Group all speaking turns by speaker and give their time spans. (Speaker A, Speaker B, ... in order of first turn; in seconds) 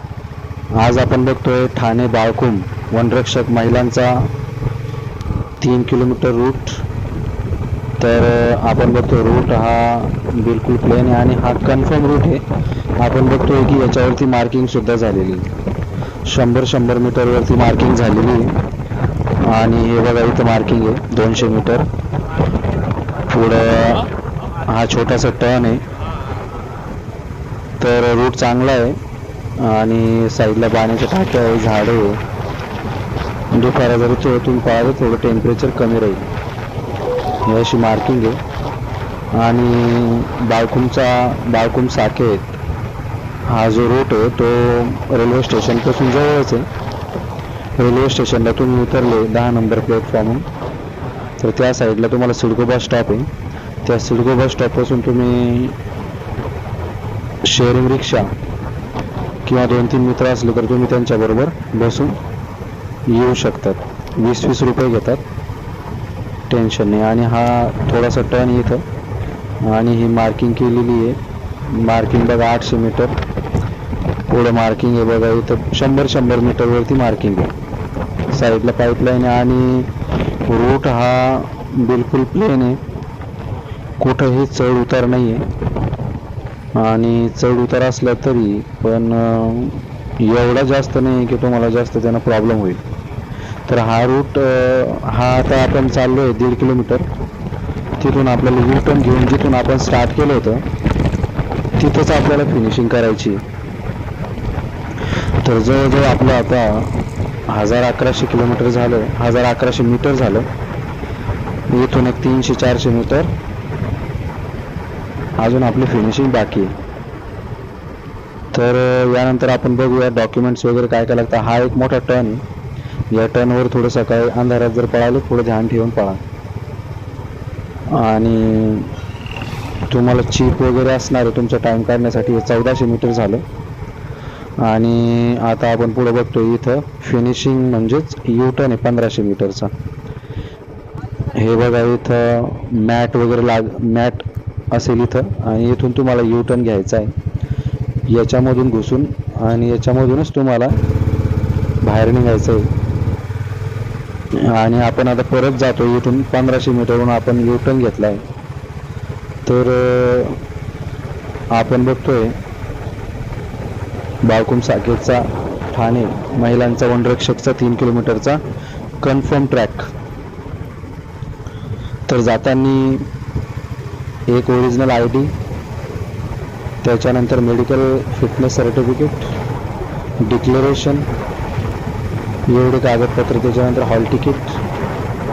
Speaker A: 0.7-4.3, 5.6-6.8, 8.0-12.4, 13.0-15.5, 16.2-18.6, 19.4-21.9, 23.3-24.1, 24.6-25.8, 27.8-29.0, 29.6-32.2, 33.5-36.2, 37.4-38.4, 39.3-42.5, 43.5-46.7, 47.8-50.5, 51.4-53.3, 53.8-55.8, 57.4-58.3, 59.4-62.2, 63.1-65.2, 66.5-68.8, 69.6-73.2, 74.3-77.5, 78.3-79.9, 80.5-82.8, 84.0-85.5, 86.7-92.8, 93.7-97.1, 98.0-100.6, 101.8-103.4, 105.4-107.0, 107.5-110.5, 111.7-113.3, 115.4-116.8, 118.5-122.4, 123.1-126.2, 127.9-128.9, 129.9-133.4, 134.6-139.7, 141.3-147.1, 148.1-150.8, 151.8-152.7, 154.3-158.2, 159.4-160.4, 161.5-162.3, 164.2-168.4, 169.0-169.9, 172.1-173.1, 174.3-175.3, 176.8-179.3, 180.2-181.1, 182.5-184.6